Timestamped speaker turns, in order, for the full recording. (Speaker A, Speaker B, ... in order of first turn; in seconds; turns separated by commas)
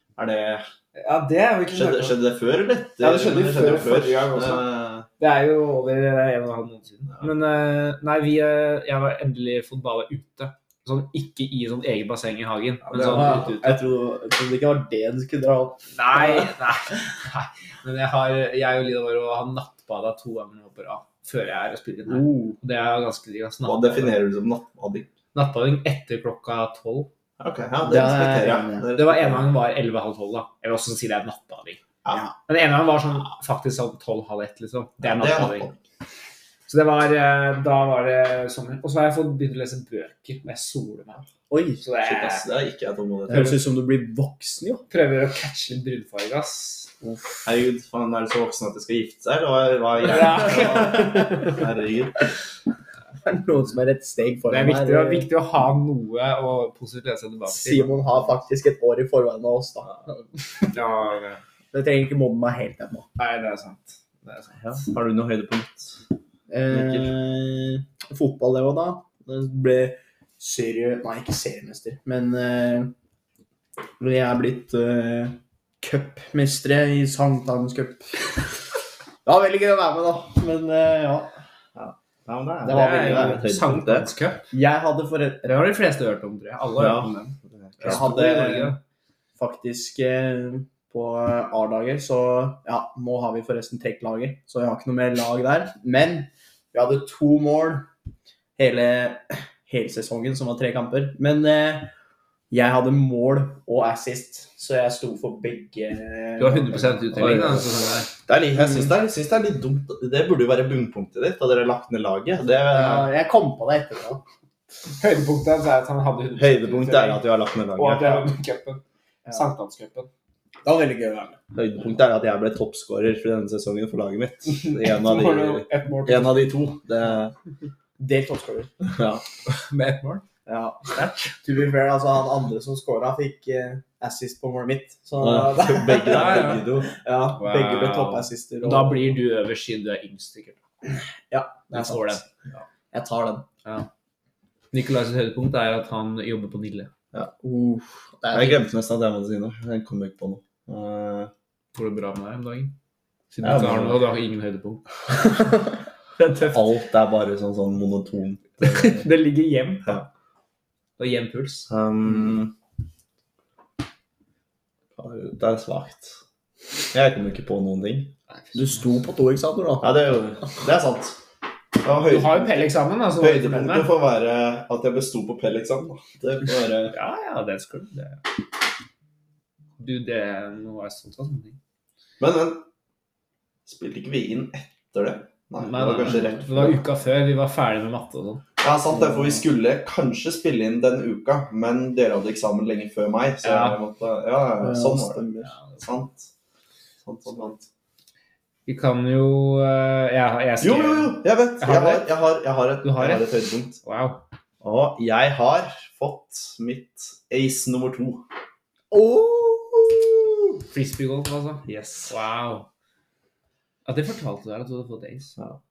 Speaker A: 0.1-0.7, Speaker B: 0.9-2.2, Speaker A: 1.7-5.1, Speaker B: 3.0-4.3, Speaker C: 3.0-4.6, Speaker B: 5.2-13.8, Speaker A: 12.9-13.4, Speaker C: 13.0-16.5, Speaker B: 15.9-24.2, Speaker C: 22.1-22.6, Speaker A: 23.6-25.1, Speaker B: 25.3-27.1, Speaker A: 27.4-29.5, Speaker C: 27.8-28.9, Speaker B: 28.9-31.8, Speaker B: 32.5-35.7, Speaker A: 35.0-35.8, Speaker B: 36.7-41.2, Speaker C: 41.5-41.8, Speaker B: 41.8-42.5, Speaker A: 42.0-43.6, Speaker C: 43.3-44.8, Speaker B: 43.3-43.6, Speaker B: 44.9-46.9, Speaker C: 47.0-47.4, Speaker A: 47.4-52.3, Speaker B: 50.0-51.6, Speaker C: 53.2-55.3, Speaker B: 54.5-58.2, Speaker C: 57.5-60.7, Speaker B: 60.7-61.4, Speaker C: 61.7-63.1, Speaker B: 63.2-64.8, Speaker A: 64.6-66.0, Speaker C: 66.5-72.9, Speaker A: 66.7-67.1, Speaker C: 74.0-78.6, Speaker C: 79.2-81.3, Speaker A: 81.7-84.1, Speaker C: 82.6-83.5, Speaker B: 82.6-84.5, Speaker C: 84.5-85.7, Speaker B: 85.4-88.8, Speaker A: 86.7-88.3, Speaker C: 87.8-88.8, Speaker C: 89.4-97.9, Speaker C: 98.6-101.9, Speaker C: 102.5-107.4, Speaker B: 106.4-108.1, Speaker A: 107.1-107.7, Speaker A: 108.3-113.1, Speaker C: 112.6-114.2, Speaker B: 115.0-118.8, Speaker A: 116.4-118.2, Speaker B: 119.3-120.1, Speaker C: 120.6-121.4, Speaker A: 121.5-127.3, Speaker B: 124.6-126.6, Speaker C: 128.0-128.7, Speaker A: 128.9-129.2, Speaker B: 129.5-130.2, Speaker C: 130.4-139.2, Speaker B: 130.9-131.3, Speaker A: 135.2-136.9, Speaker B: 136.0-136.7, Speaker B: 137.3-140.6, Speaker C: 141.3-142.2, Speaker B: 141.7-142.2, Speaker C: 142.9-143.4, Speaker B: 144.7-146.9, Speaker C: 147.4-148.6, Speaker A: 148.3-151.3, Speaker B: 151.7-152.7, Speaker B: 153.3-155.4, Speaker A: 153.4-154.0, Speaker B: 156.2-156.6, Speaker A: 156.4-159.1, Speaker B: 158.6-160.1, Speaker B: 161.0-161.7, Speaker A: 161.7-162.5, Speaker A: 164.9-166.2, Speaker A: 166.9-168.1, Speaker B: 168.3-168.6, Speaker C: 168.5-170.2, Speaker A: 169.8-171.2, Speaker A: 171.8-176.9, Speaker B: 172.0-173.9, Speaker B: 176.9-178.2, Speaker B: 179.8-181.6, Speaker A: 182.2-182.6, Speaker A: 183.7-186.8, Speaker B: 185.6-188.4, Speaker A: 188.6-195.2, Speaker B: 193.4-193.8, Speaker C: 194.6-195.5, Speaker B: 195.4-195.8, Speaker A: 195.8-196.3, Speaker A: 197.0-197.6, Speaker B: 198.7-202.1, Speaker A: 200.6-203.8, Speaker B: 202.8-204.2, Speaker A: 204.6-208.2, Speaker C: 208.9-210.6, Speaker B: 210.7-212.7, Speaker A: 211.7-212.1, Speaker B: 213.8-215.3